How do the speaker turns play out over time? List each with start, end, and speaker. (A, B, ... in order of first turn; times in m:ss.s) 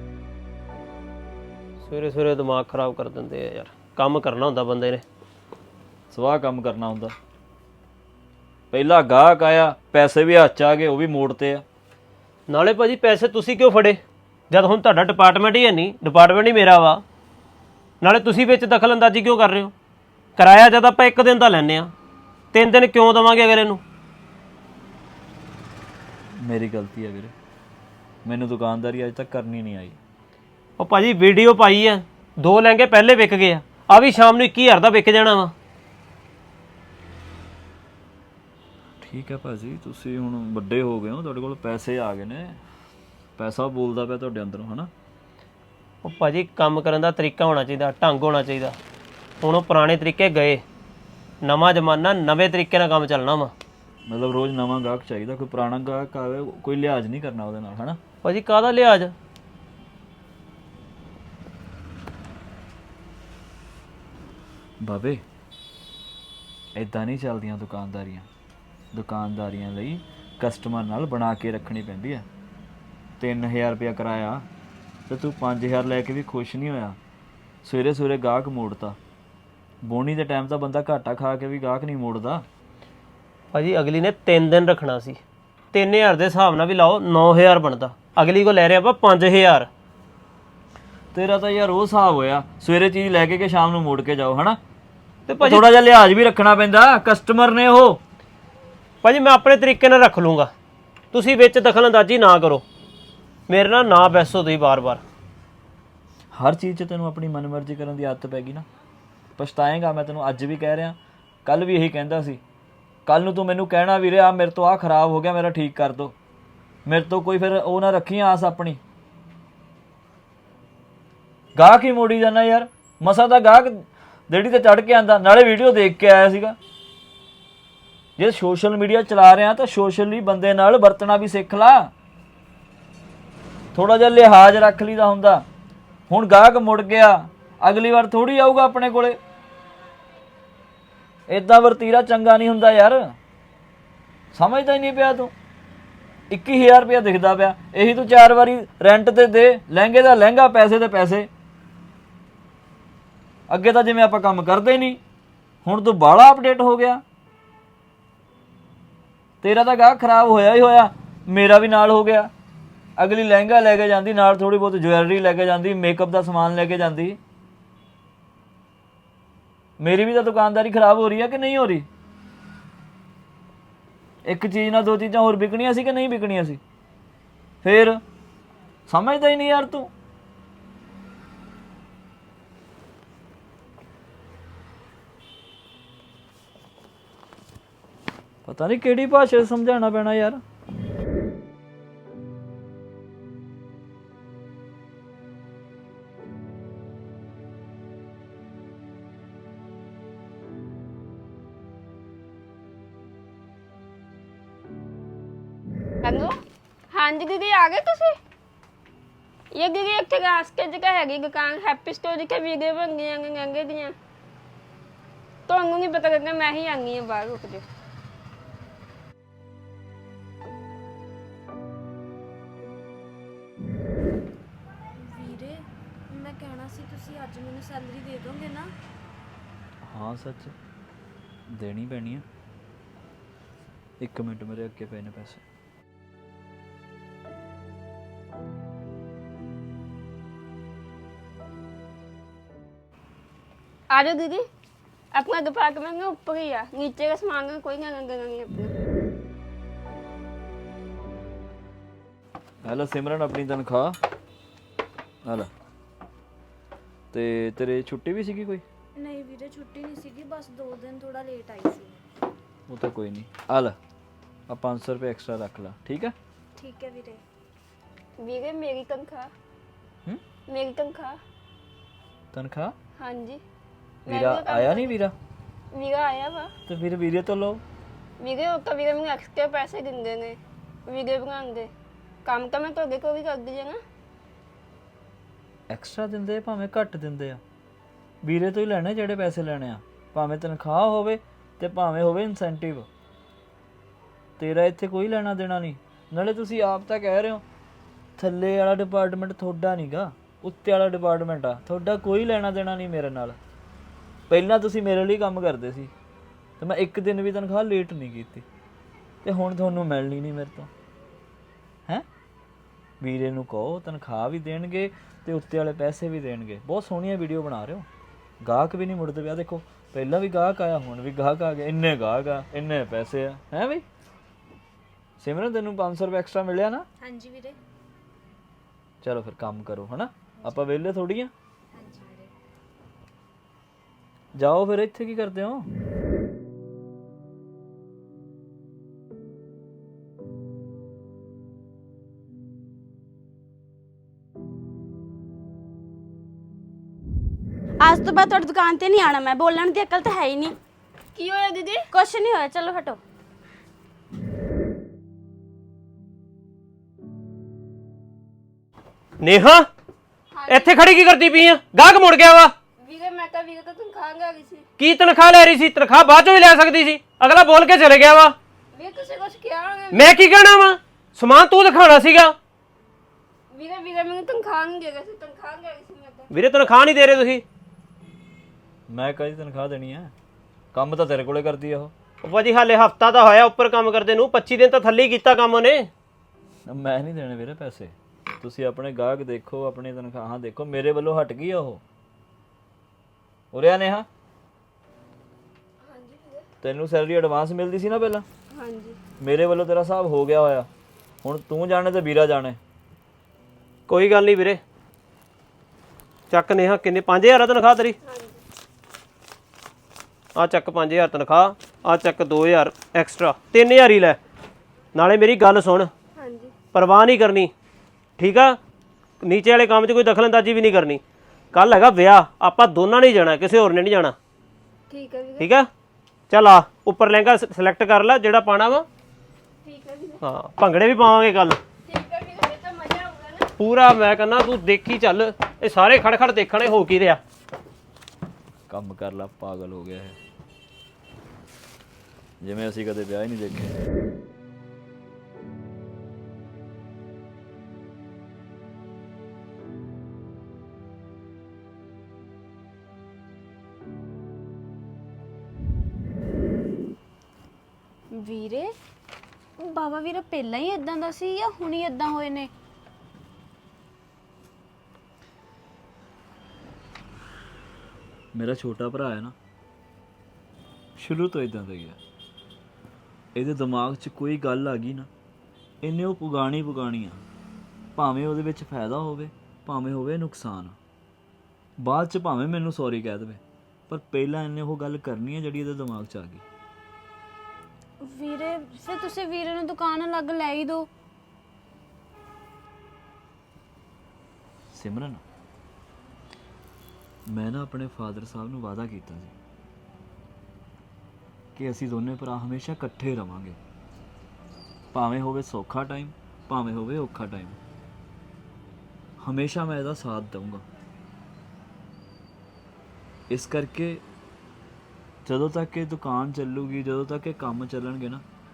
0:01.8-0:05.0 A
0:06.1-0:07.1 B
0:08.7-0:11.6 B
0:12.5-0:14.0 A
0:14.5-0:17.0 A
0:18.0-0:19.7 A
0:20.4-0:21.9 A
0:22.5-0:23.8 A
0:26.4-0:27.3 B
0:28.2-0:30.0 B
0:30.8-0:35.5 A
0:39.0-0:42.6 B
0:43.4-0:44.9 B
0:46.0-0:48.8 A
0:49.4-0:50.6 A
0:51.4-0:53.5 A
0:54.1-0:58.0 B
0:58.2-0:59.1 A
1:04.8-1:05.2 B
1:06.7-1:08.3 B
1:08.9-1:12.2 B
1:13.2-1:14.5 B
1:15.1-1:17.0 B
1:17.6-1:19.0 B
1:19.8-1:22.4 B
1:23.5-1:25.2 A
1:25.7-1:29.7 A
1:31.1-1:34.6 B
1:35.3-1:35.6 A
1:35.4-1:38.0 B
1:39.0-1:40.5 A
1:41.1-1:42.6 A
1:43.5-1:45.0 A
1:46.3-1:48.6 B
1:49.4-1:52.4 B
1:53.0-1:56.1 B
1:56.8-1:58.8 B
2:01.6-2:06.6 B
2:08.2-2:11.9 B
2:13.7-2:15.4 B
2:16.1-2:19.2 B
2:21.3-2:23.2 B
2:24.3-2:25.3 B
2:26.3-2:31.3 B
2:33.5-2:35.0 B
2:35.6-2:37.0 B
2:39.4-2:42.3 B
2:43.0-2:47.2 B
2:49.8-2:51.9 B
2:54.2-2:56.6 B
2:57.6-2:58.0 B
2:58.9-2:59.9 B
3:08.4-3:10.4 B
3:26.0-3:26.3 C
3:26.9-3:28.2 C
3:29.5-3:33.9 C
3:35.5-3:37.6 C
3:45.0-3:48.7 D
3:49.8-3:50.5 B
3:51.5-3:52.2 B
3:54.0-3:55.4 B
4:03.9-4:04.4 C
4:05.1-4:08.7 C
4:12.6-4:14.0 B
4:15.2-4:15.5 B
4:17.1-4:18.6 B
4:19.0-4:22.0 D
4:22.7-4:23.8 B
4:24.5-4:26.1 B
4:26.6-4:27.2 D
4:28.2-4:29.3 C
4:30.5-4:31.2 C
4:32.3-4:32.8 B
4:33.0-4:33.4 C
4:34.0-4:35.1 B
4:34.1-4:35.0 C
4:35.7-4:36.5 C
4:36.7-4:37.6 B
4:38.2-4:41.7 C
4:42.2-4:43.8 C
4:45.7-4:47.4 B
4:48.2-4:52.9 B
4:54.4-4:57.4 B
4:58.2-5:03.4 B
5:04.3-5:05.9 B
5:06.6-5:08.4 B
5:09.2-5:10.7 B
5:13.0-5:17.9 B
5:18.4-5:23.8 B
5:25.2-5:26.8 B
5:27.0-5:27.6 D
5:29.0-5:31.3 B
5:31.7-5:32.3 D
5:34.3-5:35.7 B
5:47.8-5:50.6 E
5:51.1-5:51.9 C
5:51.9-5:53.0 E
5:59.2-5:59.7 A
6:00.3-6:00.8 C
6:00.5-6:02.5 A
6:02.8-6:04.6 C
6:04.8-6:08.4 A
6:08.7-6:10.1 C
6:09.9-6:12.3 A
6:13.5-6:16.3 C
6:16.3-6:17.4 A
6:18.9-6:20.1 B
6:20.7-6:21.9 B
6:22.2-6:25.9 A
6:26.7-6:31.8 B
6:33.5-6:34.1 B
6:35.8-6:36.4 C
6:36.6-6:38.2 B
6:38.5-6:39.0 C
6:39.2-6:40.7 B
6:41.2-6:42.6 B
6:43.9-6:44.6 A
6:46.3-6:48.0 A
6:48.0-6:48.4 C
6:50.4-6:54.2 A
6:54.9-6:55.9 A
6:56.2-6:56.5 C
6:56.7-6:57.5 A
6:58.2-6:58.6 A
6:59.2-7:01.0 A
7:01.5-7:04.2 A
7:04.9-7:05.5 C
7:05.4-7:05.7 A
7:06.3-7:08.8 A
7:09.6-7:10.2 C
7:10.2-7:11.6 A
7:11.8-7:13.5 C
7:13.6-7:17.2 A
7:18.7-7:20.2 B
7:22.4-7:23.8 B
7:38.1-7:38.7 D
7:39.6-7:42.5 D
7:48.3-7:49.3 B
7:51.0-7:52.0 B
7:53.3-7:55.1 B
7:55.8-7:57.2 B
7:58.0-8:00.8 B
8:01.8-8:06.4 B
8:08.0-8:10.9 D
8:14.7-8:15.2 B
8:17.3-8:19.3 B
8:21.6-8:23.6 B
8:24.9-8:27.6 B
8:29.2-8:30.6 B
8:33.3-8:34.0 B
8:35.2-8:38.2 B